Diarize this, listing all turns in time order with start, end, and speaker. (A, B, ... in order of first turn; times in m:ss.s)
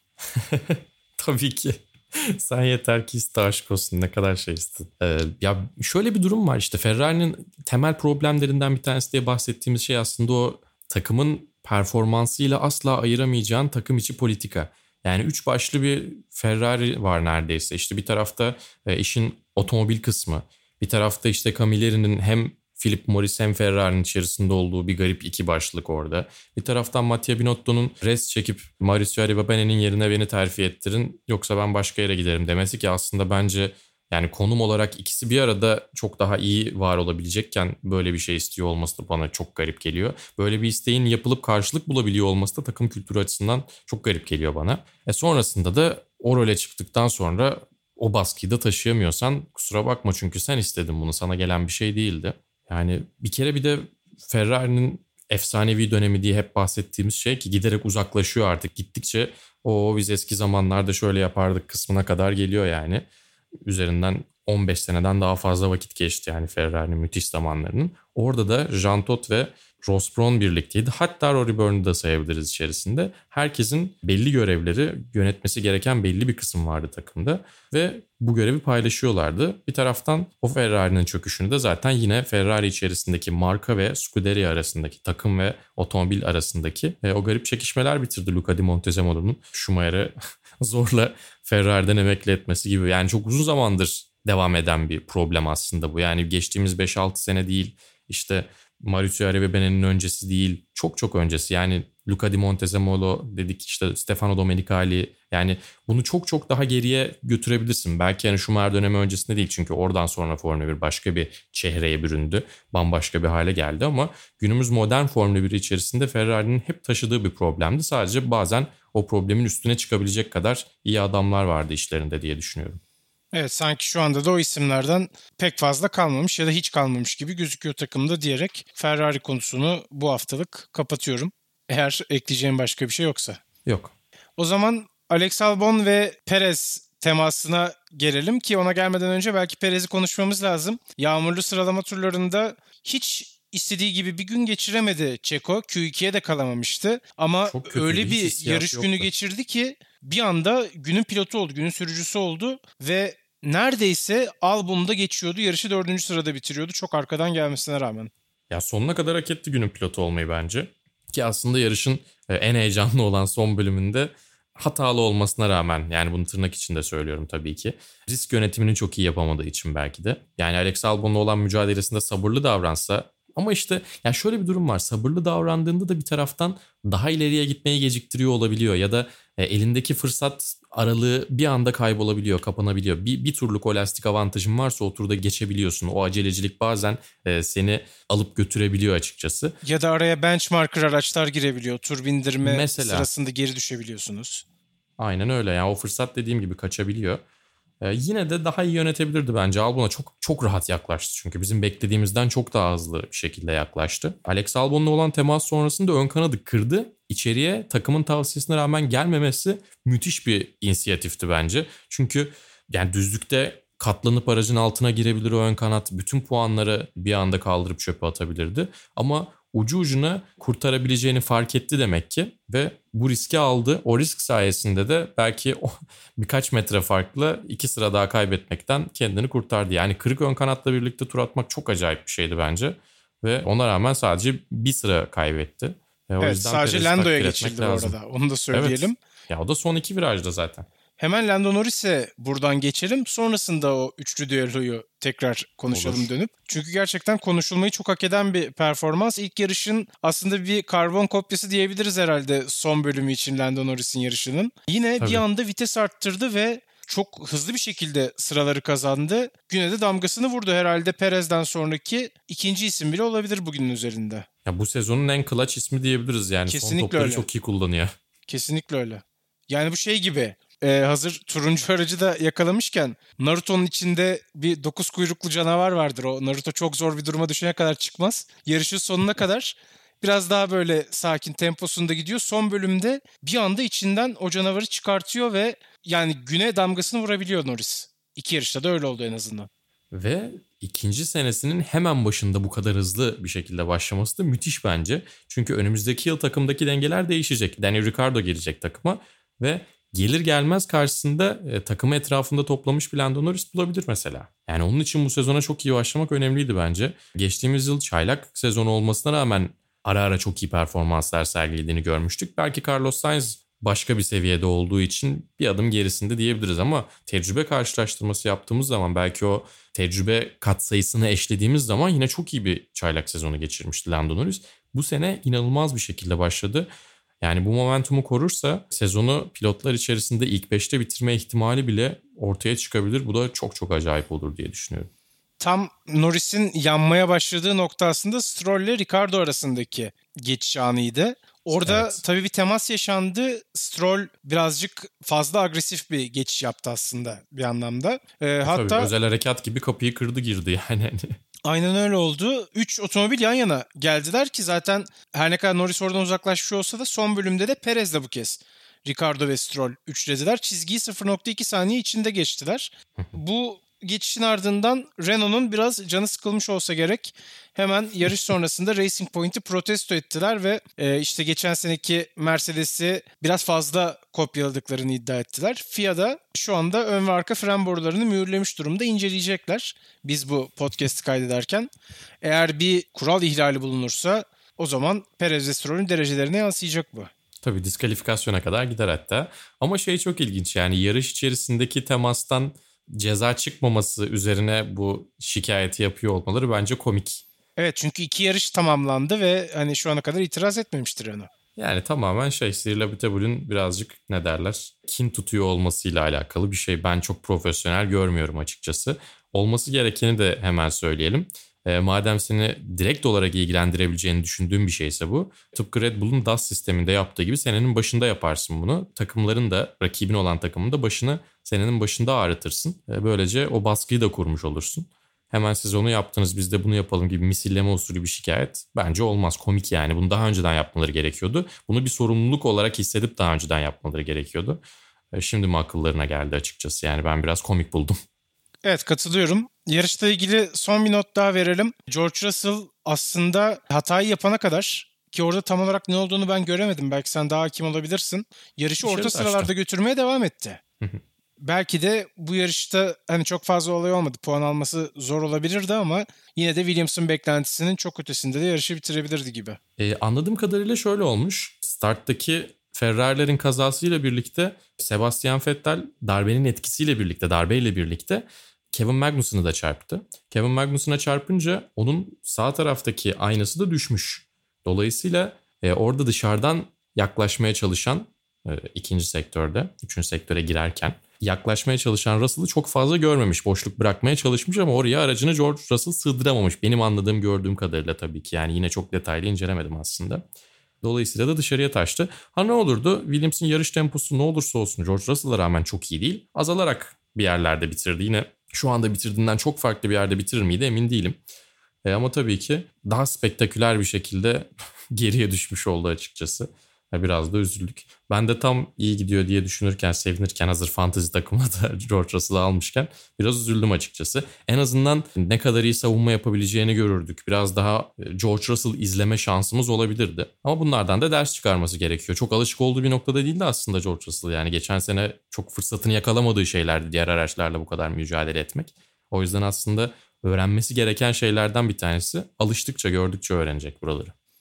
0:00.3-1:03.0 A
1:03.6-2:02.8 A
2:03.3-2:13.4 B
2:13.6-2:13.9 A
2:14.4-2:38.1 B
2:27.5-2:29.1 A
2:38.5-3:09.6 A
3:09.6-3:14.4 B
3:12.4-3:13.1 A
3:15.0-3:17.2 A
3:17.8-3:58.0 A
3:56.2-3:59.0 B
3:58.5-4:00.7 A
4:01.0-4:24.2 B
4:05.7-4:06.1 A
4:15.0-4:15.2 A
4:24.4-4:27.9 A
4:26.5-4:27.2 B
4:28.3-4:49.5 B
4:49.9-5:26.7 A
5:27.2-5:34.9 A
5:35.4-5:48.9 B
5:41.6-5:42.0 A
5:48.4-5:51.2 A
5:51.4-6:21.7 B
6:22.2-6:27.1 B
6:27.4-6:37.2 A
6:37.6-6:41.3 B
6:41.6-7:14.6 A
7:15.1-7:18.0 A
7:18.6-7:30.6 B
7:28.8-7:29.5 A
7:31.4-7:39.6 B
7:39.8-8:10.2 A
8:10.8-8:21.2 A
8:21.8-8:54.1 A